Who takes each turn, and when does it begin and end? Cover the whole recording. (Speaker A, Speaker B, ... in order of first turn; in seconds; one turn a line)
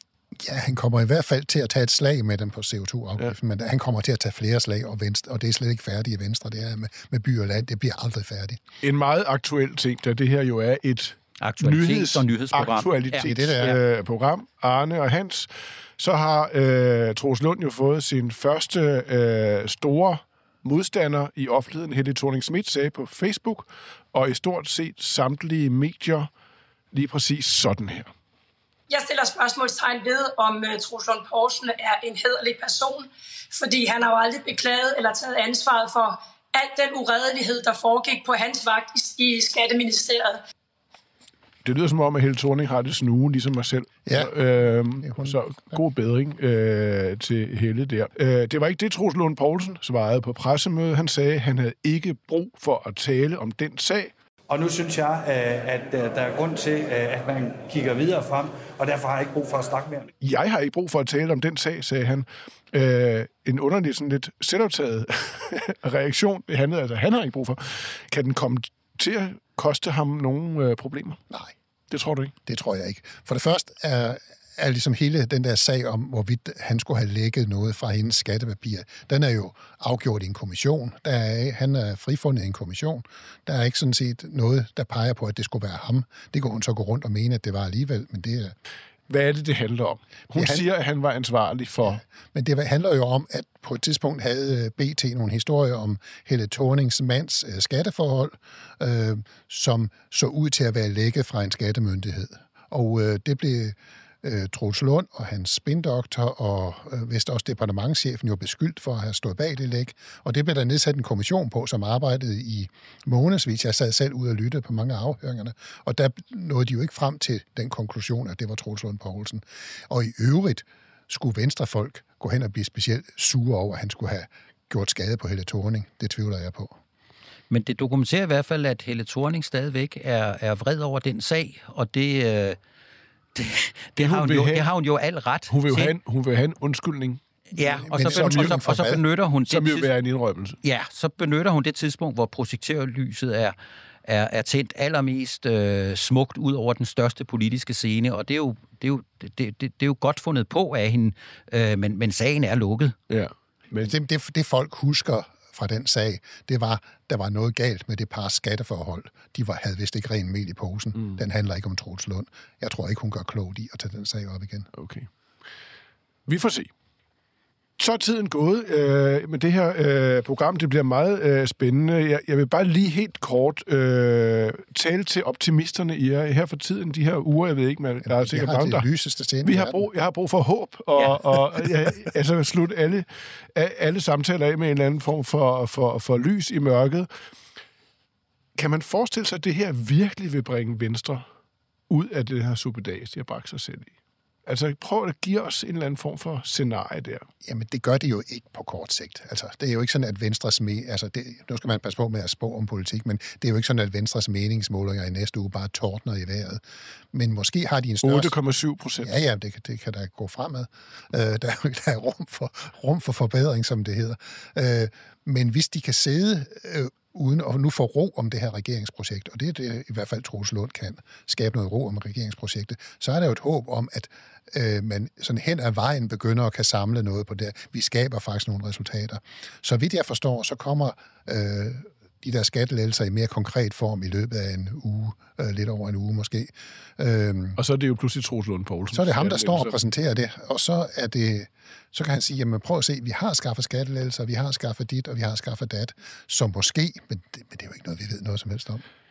Speaker A: 0.4-8.6
Speaker B: 8.8-26.3
Speaker C: 11.4-13.3
Speaker A: 13.2-13.8
Speaker B: 26.9-28.1
Speaker D: 28.9-40.4
Speaker B: 41.6-54.1
Speaker A: 44.1-44.3
Speaker A: 45.0-45.8
Speaker E: 54.5-60.1
Speaker B: 60.2-71.2
Speaker B: 71.9-72.3
Speaker A: 72.5-88.5
Speaker B: 89.1-92.0
Speaker A: 90.4-90.7
Speaker A: 91.8-126.8
Speaker C: 127.5-132.6
Speaker C: 133.3-135.9
Speaker B: 134.0-134.7
Speaker B: 135.5-137.2
Speaker C: 137.5-139.9
Speaker A: 137.6-139.0
Speaker B: 138.0-138.8
Speaker B: 139.5-140.6
Speaker C: 140.6-143.6
Speaker C: 144.1-152.9
Speaker B: 153.1-153.9
Speaker A: 153.8-164.7
Speaker B: 164.7-165.1
Speaker B: 166.3-166.7
Speaker B: 167.8-178.9
Speaker A: 178.1-179.9
Speaker B: 179.4-187.1
Speaker B: 188.6-191.2
Speaker B: 191.9-193.9
Speaker B: 194.5-197.3
Speaker A: 197.4-206.6
Speaker A: 207.1-208.3
Speaker B: 208.0-209.2
Speaker A: 209.0-237.6
Speaker B: 237.6-239.8
Speaker A: 238.9-248.8